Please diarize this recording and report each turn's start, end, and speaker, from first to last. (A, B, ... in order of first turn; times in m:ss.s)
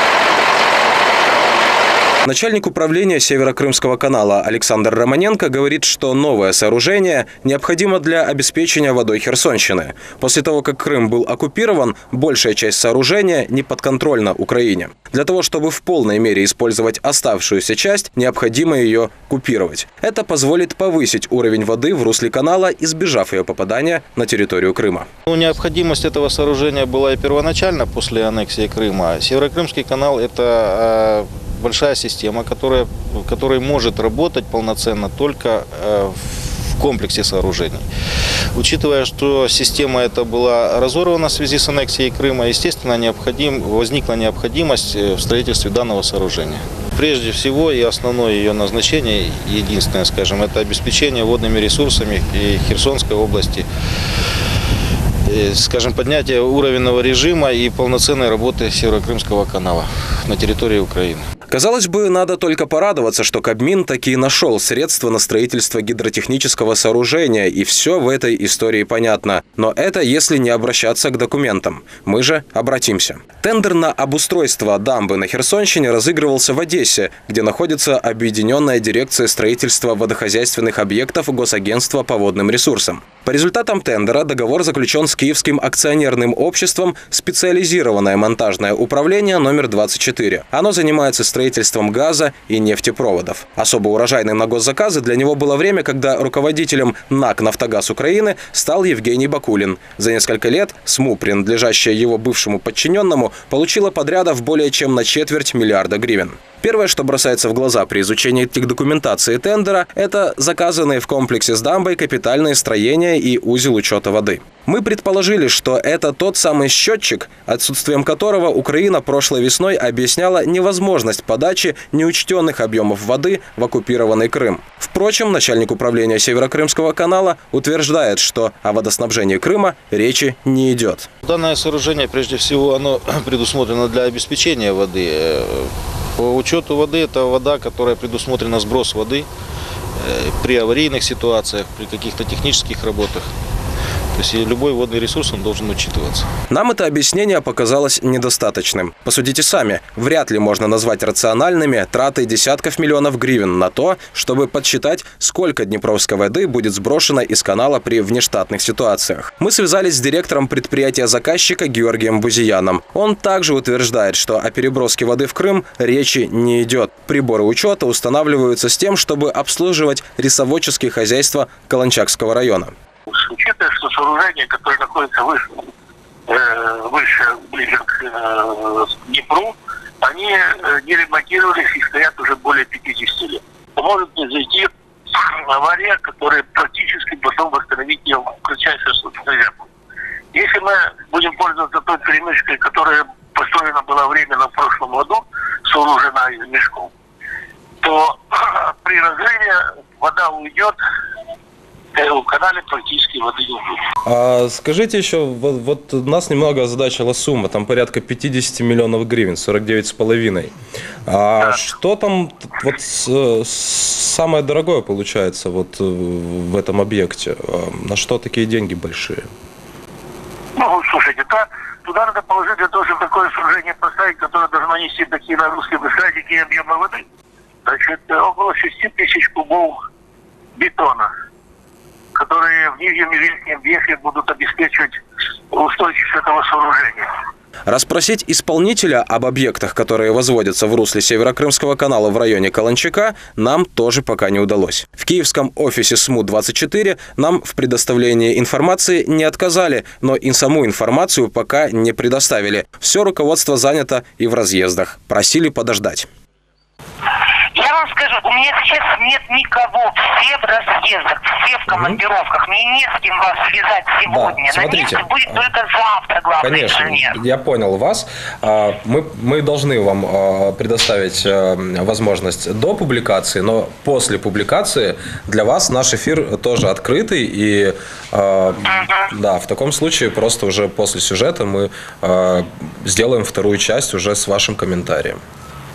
0:02.2-0:25.1 A
0:25.3-0:37.9 B
0:38.5-0:53.7 B
0:55.3-1:01.3 B
1:01.5-2:11.1 A
2:11.2-2:19.3 B
2:20.0-2:23.3 B
2:24.1-2:26.3 B
2:26.5-2:52.7 A
2:53.1-2:55.7 C
2:56.3-3:09.7 C
3:10.3-3:16.9 C
3:17.8-3:20.8 C
3:22.0-3:23.8 C
3:24.0-3:30.5 A
3:31.1-3:39.3 A
3:40.6-3:47.0 C
3:47.6-3:49.8 C
3:50.6-3:51.1 C
3:52.2-3:55.0 C
3:55.5-3:57.1 C
3:57.7-4:16.1 A
4:17.6-4:27.2 D
4:21.7-4:22.0 A
4:24.1-4:25.4 A
4:26.4-4:45.2 A